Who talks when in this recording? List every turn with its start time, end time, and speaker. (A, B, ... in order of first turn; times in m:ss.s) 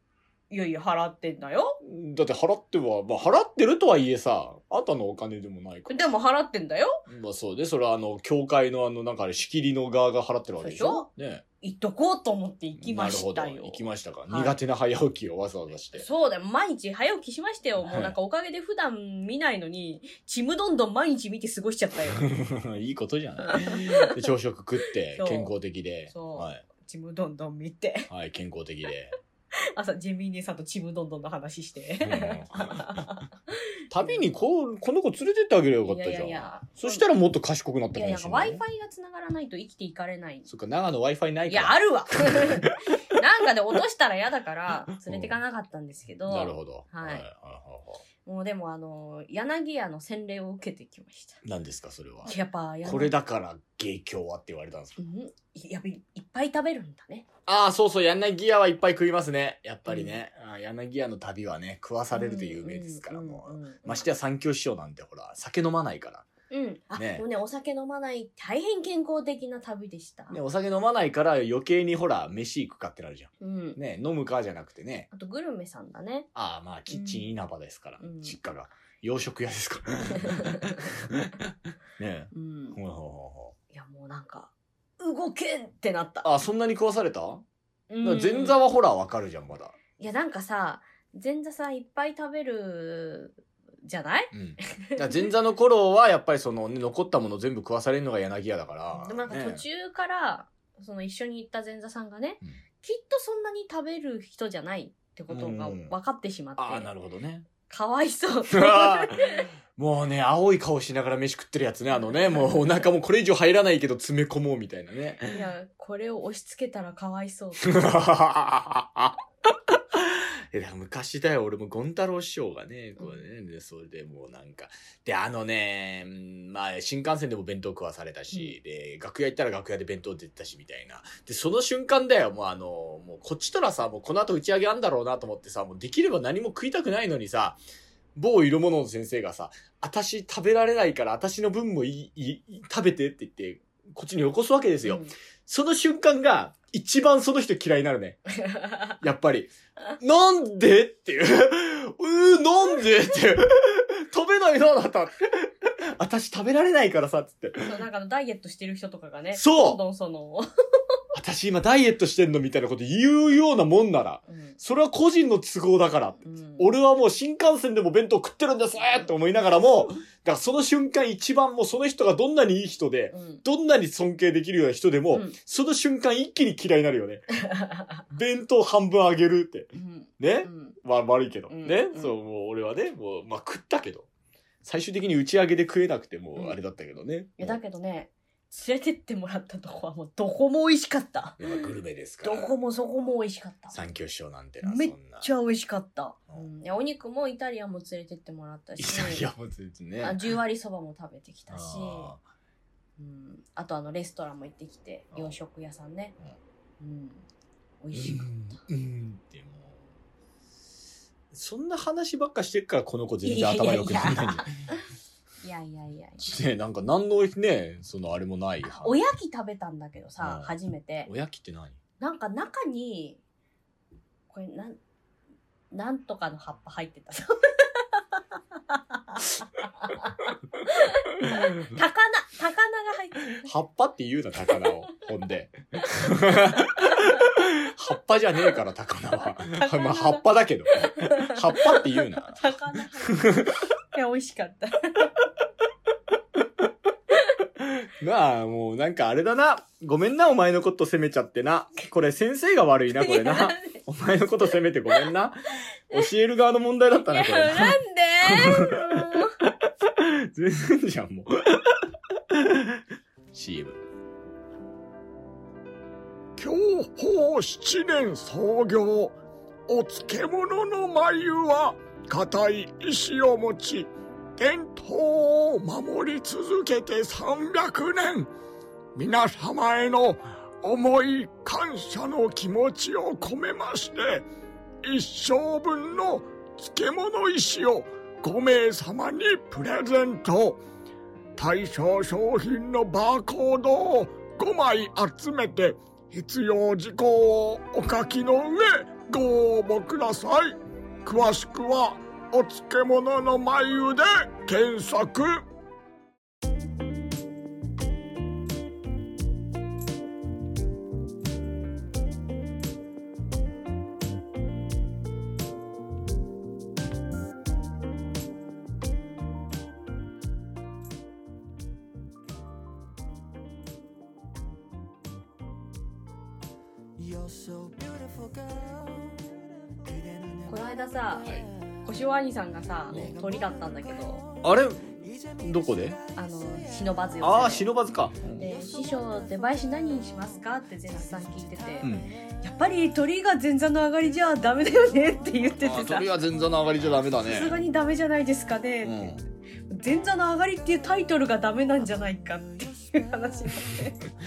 0:00.5-0:01.8 A
0:01.8-0:06.1 B
0:05.9-0:07.0 A
0:07.1-0:11.4 B
0:10.6-0:11.1 A
0:11.6-0:14.6 A
0:12.8-0:16.0 B
0:16.0-0:22.3 A
0:17.8-0:18.1 B
0:22.1-0:26.6 B
0:23.4-0:24.2 A
0:25.2-0:25.5 A
0:26.1-0:28.1 A
0:28.1-0:29.1 B
0:29.6-0:33.3 A
0:32.0-0:33.0 B
0:33.9-0:38.6 B
0:34.0-0:34.2 A
0:35.8-0:37.0 A
0:37.9-0:40.5 A
0:40.4-0:42.7 B
0:41.5-0:47.2 A
0:45.0-0:45.4 B
0:46.3-0:48.0 B
0:48.2-0:51.4 A
0:51.4-0:52.3 B
0:52.2-0:53.1 A
0:52.8-0:55.0 B
0:55.0-0:57.2 A
0:57.5-1:06.2 B
0:59.9-1:00.2 A
1:02.1-1:04.0 A
1:06.5-1:10.4 A
1:06.9-1:07.2 B
1:10.3-1:15.1 B
1:13.4-1:13.8 A
1:15.1-1:16.3 A
1:16.3-1:23.5 B
1:16.9-1:17.3 A
1:18.0-1:18.4 A
1:20.2-1:20.8 A
1:22.3-1:22.8 A
1:23.7-1:26.3 A
1:26.2-1:27.4 B
1:27.9-1:28.6 A
1:28.0-1:29.8 B
1:30.0-1:35.2 A
1:34.3-1:39.6 B
1:38.9-1:46.9 A
1:45.3-1:45.9 B
1:46.6-1:47.5 B
1:47.7-1:49.5 A
1:48.5-1:55.4 B
1:55.3-1:58.0 A
1:57.6-2:17.6 B
2:18.1-2:28.2 B
2:24.8-2:25.1 A
2:28.5-2:28.9 A
2:29.0-2:37.8 B
2:37.6-2:40.5 A
2:39.3-2:39.8 B
2:41.1-2:57.3 B
2:44.3-2:44.6 A
2:46.2-2:46.7 A
2:53.1-2:53.4 A
2:55.1-2:55.4 A
2:57.4-2:57.8 A
2:58.1-3:04.1 B
2:59.7-3:00.8 A
3:01.5-3:02.1 A
3:04.6-3:07.6 B
3:07.4-3:11.6 A
3:11.4-3:12.5 B
3:12.2-3:13.8 A
3:13.7-3:15.3 B
3:14.6-3:19.3 A
3:18.8-3:20.4 B
3:20.0-3:22.1 A
3:21.5-3:22.2 B
3:23.0-3:26.2 A
3:26.8-3:27.3 A
3:27.8-3:28.6 A
3:27.9-3:29.8 B
3:31.3-3:34.5 B
3:33.2-3:34.7 A
3:35.4-3:36.3 A
3:36.2-3:39.0 B
3:38.6-3:41.1 A
3:40.2-3:40.5 B
3:41.0-3:41.8 B
3:42.0-3:43.2 A
3:44.3-3:44.8 A
3:45.7-3:48.0 A
3:48.7-3:50.1 A
3:50.6-3:53.4 A
3:53.4-4:02.5 B
3:59.6-4:00.2 A
4:00.9-4:05.1 A
4:03.0-4:03.6 B
4:07.6-4:22.8 B
4:12.9-4:13.8 A
4:17.0-4:19.3 A
4:23.3-4:23.8 B
4:26.4-4:29.2 C
4:29.7-4:38.3 C
4:38.9-4:44.2 C
4:44.8-4:50.6 C
4:51.4-5:05.4 C
5:30.5-5:31.3 A
5:31.8-5:34.2 A
5:32.9-5:33.2 B
5:34.4-5:36.0 B
5:36.2-5:37.7 A
5:37.2-5:38.5 B
5:38.4-5:46.1 A
5:41.8-5:42.1 B
5:45.6-5:47.5 B
5:47.3-5:49.1 A
5:48.8-5:49.2 B
5:49.7-5:54.0 A